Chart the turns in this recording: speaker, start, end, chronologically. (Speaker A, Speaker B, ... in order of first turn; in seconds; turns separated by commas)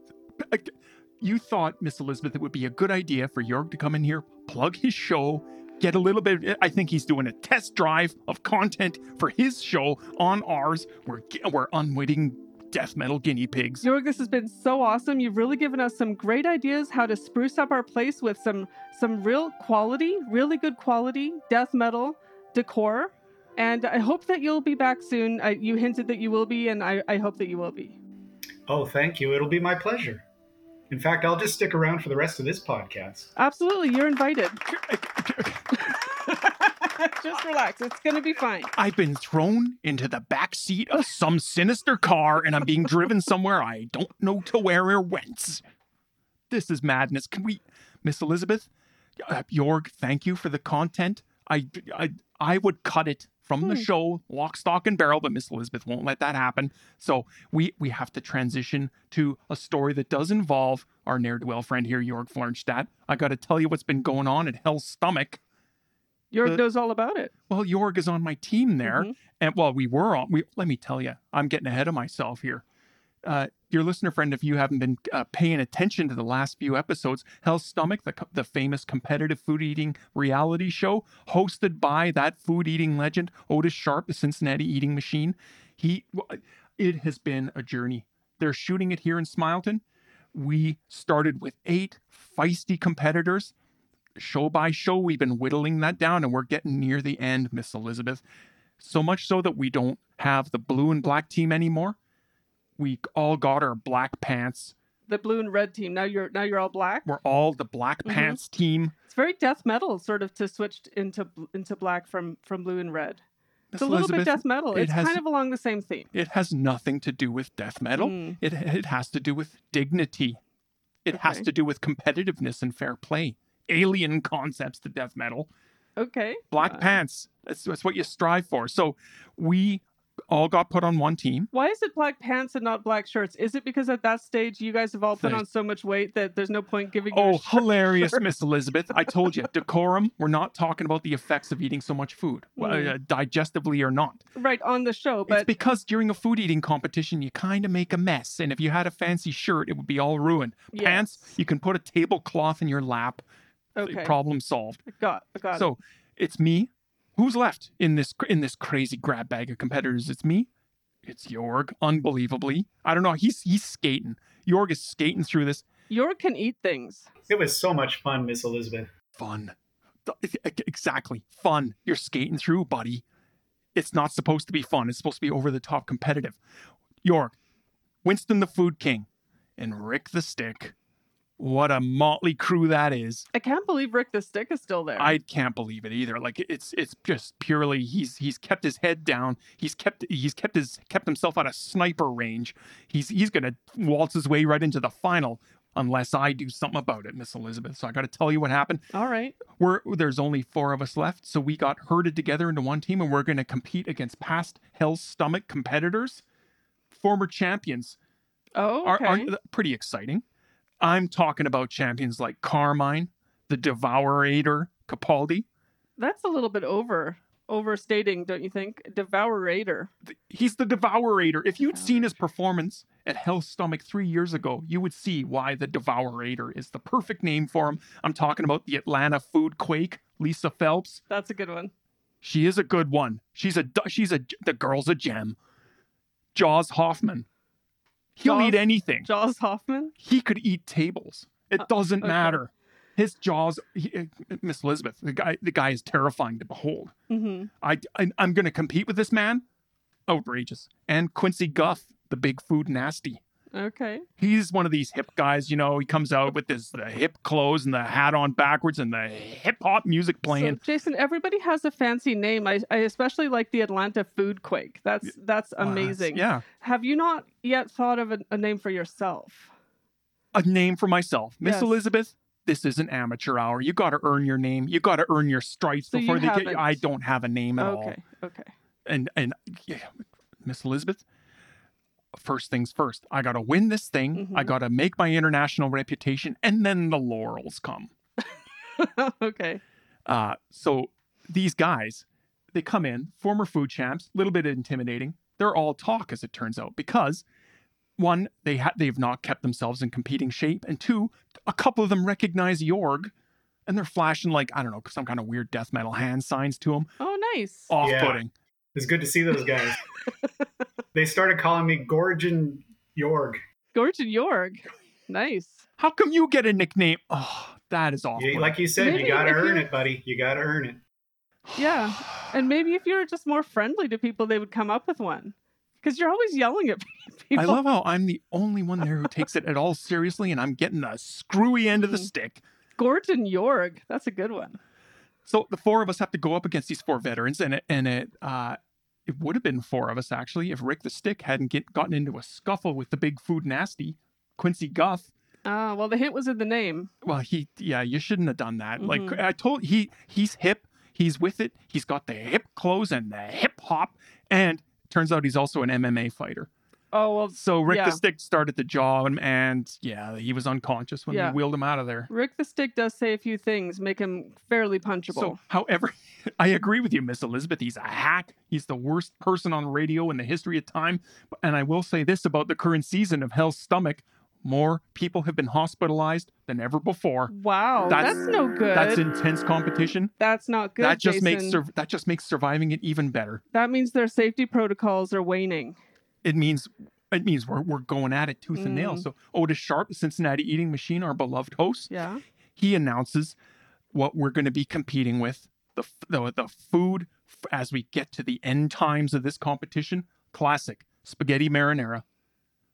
Speaker A: 0.4-13.8, Speaker B: 13.8-28.0, Speaker C: 28.7-30.2, Speaker C: 30.9-33.3, Speaker B: 33.4-34.6, Speaker A: 34.7-36.0, Speaker B: 35.7-38.7, Speaker A: 38.8-45.6, Speaker A: 46.5-48.7, Speaker A: 49.2-65.4, Speaker B: 53.6-53.9, Speaker B: 66.3-67.3, Speaker A: 67.5-72.6, Speaker B: 68.8-69.1, Speaker A: 73.2-89.8, Speaker A: 90.3-93.5, Speaker A: 94.2-98.2, Speaker A: 98.8-102.0, Speaker A: 102.8-104.7, Speaker B: 105.1-107.0, Speaker A: 107.0-108.9, Speaker B: 108.0-108.4, Speaker B: 109.1-113.2, Speaker A: 113.7-115.2, Speaker B: 113.8-116.1, Speaker A: 116.1-120.4, Speaker B: 118.0-118.4, Speaker A: 121.0-125.5, Speaker B: 121.1-121.5, Speaker B: 126.0-127.0, Speaker A: 126.5-131.5, Speaker B: 131.5-138.2, Speaker A: 135.2-135.4, Speaker A: 137.1-144.2, Speaker B: 142.6-142.9, Speaker B: 144.3-145.5, Speaker A: 145.3-153.2, Speaker B: 150.7-151.3, Speaker B: 153.8-154.1, Speaker A: 153.8-154.8, Speaker B: 154.9-155.7, Speaker A: 155.5-160.5, Speaker A: 161.0-165.6, Speaker B: 165.9-167.1, Speaker C: 167.3-168.9, Speaker A: 169.2-173.0, Speaker A: 173.7-176.4, Speaker A: 177.0-177.3, Speaker A: 178.0-180.7, Speaker A: 181.4-183.3, Speaker B: 183.3-185.2, Speaker A: 185.0-198.8, Speaker B: 198.9-199.4, Speaker A: 199.5-206.2, Speaker A: 206.9-208.0, Speaker B: 208.5-209.3, Speaker A: 208.8-210.2, Speaker A: 210.8-215.4, Speaker B: 216.0-219.9, Speaker A: 220.0-231.0, Speaker B: 221.6-222.1, Speaker B: 231.1-231.7, Speaker A: 232.2-235.4, Speaker A: 236.3-237.2, Speaker A: 238.2-239.1, Speaker B: 238.2-239.9, Speaker A: 240.0-246.9, Speaker B: 241.6-242.4, Speaker B: 247.1-247.5, Speaker A: 247.6-249.4, Speaker A: 250.1-253.2, Speaker B: 253.5-254.1, Speaker A: 254.2-260.6, Speaker B: 260.3-269.5, Speaker A: 265.6-266.4, Speaker A: 270.3-278.0, Speaker B: 271.4-271.8, Speaker B: 275.9-276.8, Speaker B: 277.6-278.5, Speaker A: 278.9-281.0, Speaker A: 282.1-287.9, Speaker B: 284.1-284.5, Speaker B: 288.8-289.6, Speaker A: 290.1-297.2, Speaker A: 298.0-303.1, Speaker A: 303.6-306.9, Speaker B: 307.0-307.7, Speaker A: 307.7-308.3, Speaker C: 307.8-308.2, Speaker C: 308.7-309.8, Speaker C: 310.9-313.4, Speaker B: 313.7-315.6, Speaker A: 315.8-318.6, Speaker C: 318.2-320.8, Speaker B: 318.8-319.6, Speaker A: 321.5-322.1, Speaker B: 321.5-327.6, Speaker A: 327.3-332.4, Speaker B: 331.7-332.1, Speaker B: 332.8-334.6, Speaker A: 335.2-345.1, Speaker B: 345.4-346.9, Speaker A: 347.0-356.5, Speaker B: 348.8-349.2, Speaker B: 356.9-358.0, Speaker A: 357.3-362.1, Speaker B: 361.1-361.4, Speaker B: 362.1-365.4, Speaker A: 365.1-377.3, Speaker B: 377.3-379.0, Speaker A: 377.9-380.1, Speaker B: 380.2-381.6, Speaker A: 380.8-383.4, Speaker B: 383.5-385.8, Speaker A: 386.2-391.9, Speaker B: 388.5-389.1, Speaker B: 391.9-392.2, Speaker A: 392.6-393.4, Speaker A: 393.9-402.0